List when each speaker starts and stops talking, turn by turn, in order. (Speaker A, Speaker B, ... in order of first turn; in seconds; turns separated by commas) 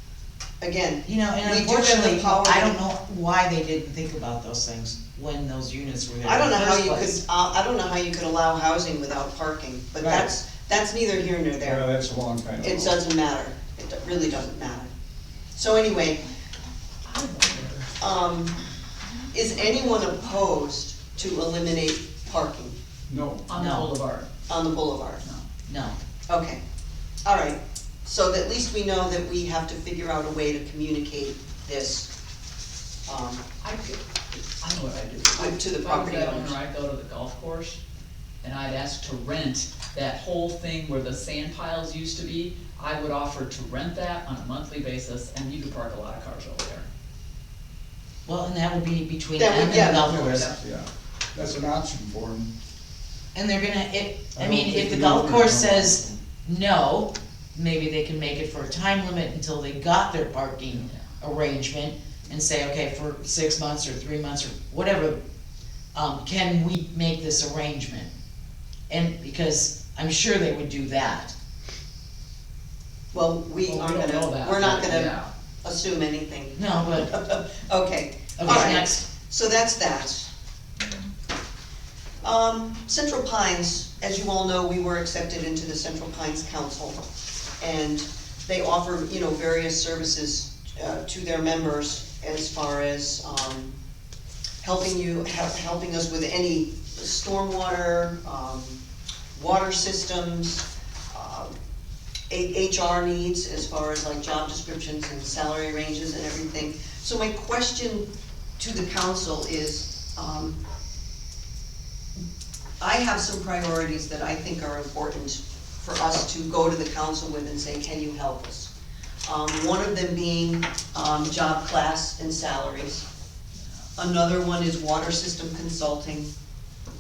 Speaker A: 0.6-2.8, Speaker B: 1.1-7.2, Speaker A: 6.2-11.9, Speaker C: 11.6-13.0, Speaker A: 12.6-14.9, Speaker A: 15.6-16.2, Speaker D: 17.1-17.9, Speaker A: 18.0-18.6, Speaker A: 19.3-22.8, Speaker C: 23.1-23.5, Speaker D: 23.5-24.3, Speaker B: 23.5-23.9, Speaker A: 24.5-25.2, Speaker B: 25.7-26.0, Speaker A: 26.3-26.6, Speaker A: 27.2-32.1, Speaker A: 33.1-33.4, Speaker D: 33.6-34.0, Speaker D: 34.6-37.8, Speaker A: 35.4-36.6, Speaker D: 38.4-46.9, Speaker B: 48.3-50.5, Speaker A: 49.4-50.1, Speaker C: 49.9-52.5, Speaker D: 50.0-50.5, Speaker B: 53.3-65.2, Speaker C: 54.4-56.2, Speaker D: 60.7-61.0, Speaker B: 65.9-68.1, Speaker B: 68.9-71.3, Speaker A: 73.1-80.3, Speaker D: 73.7-75.3, Speaker B: 76.6-77.1, Speaker B: 78.4-79.0, Speaker A: 82.2-87.0, Speaker A: 87.6-93.8, Speaker A: 94.6-98.8, Speaker A: 99.3-101.5, Speaker A: 102.3-110.6, Speaker A: 112.8-118.7, Speaker A: 119.2-123.1, Speaker A: 124.0-126.3